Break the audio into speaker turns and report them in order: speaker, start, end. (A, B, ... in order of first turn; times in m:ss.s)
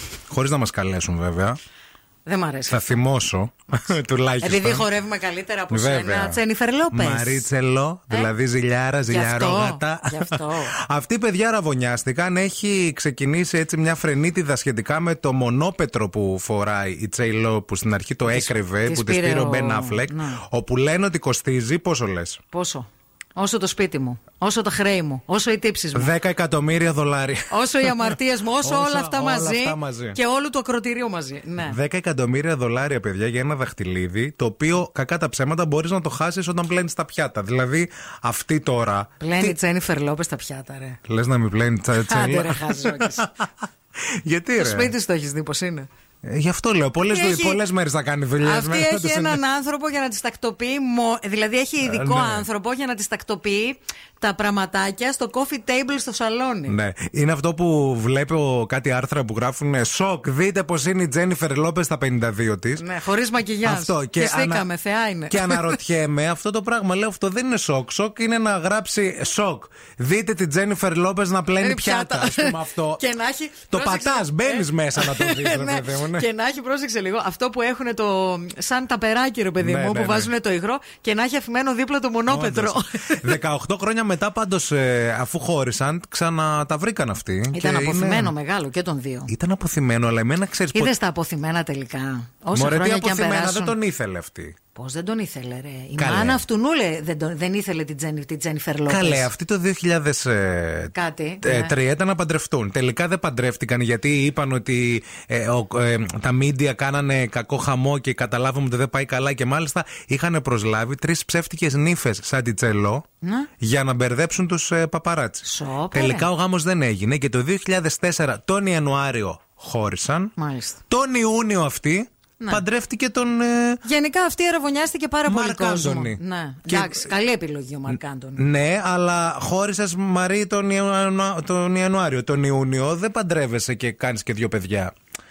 0:00.3-0:01.6 A
0:02.2-0:02.9 B
0:02.7-0:04.8 A
0:04.4-0:07.4 B
0:05.7-0:06.4 A
0:06.9-0:22.4 A
0:09.1-0:10.7 B
0:18.3-0:20.4 B
0:22.5-0:26.1 B
0:25.9-0:30.2 A
0:27.5-0:31.8 B
0:31.6-0:39.6 A
0:39.2-0:41.0 B
0:41.0-0:44.9 A
0:41.9-0:43.3 B
0:44.6-0:45.9 B
0:46.2-0:49.4 A
0:47.1-0:47.6 B
0:48.4-0:56.8 B
0:51.8-0:52.5 A
0:56.7-1:02.8 A
1:02.8-1:05.8 B
1:03.6-1:04.7 A
1:05.3-1:13.0 A
1:11.6-1:23.3 B
1:13.7-1:16.3 A
1:19.6-1:20.3 A
1:22.3-1:28.3 A
1:27.5-1:29.3 B
1:29.3-1:30.9 A
1:30.7-1:33.8 B
1:32.5-1:34.6 A
1:34.7-1:39.3 B
1:36.0-1:36.4 A
1:38.9-1:53.0 A
1:40.9-1:41.7 B
1:53.2-1:53.5 B
1:53.6-2:00.3 A
1:55.4-1:56.3 B
2:00.4-2:00.8 B
2:00.9-2:03.8 A
2:03.8-2:08.4 B
2:05.2-2:07.1 A
2:08.4-2:14.9 A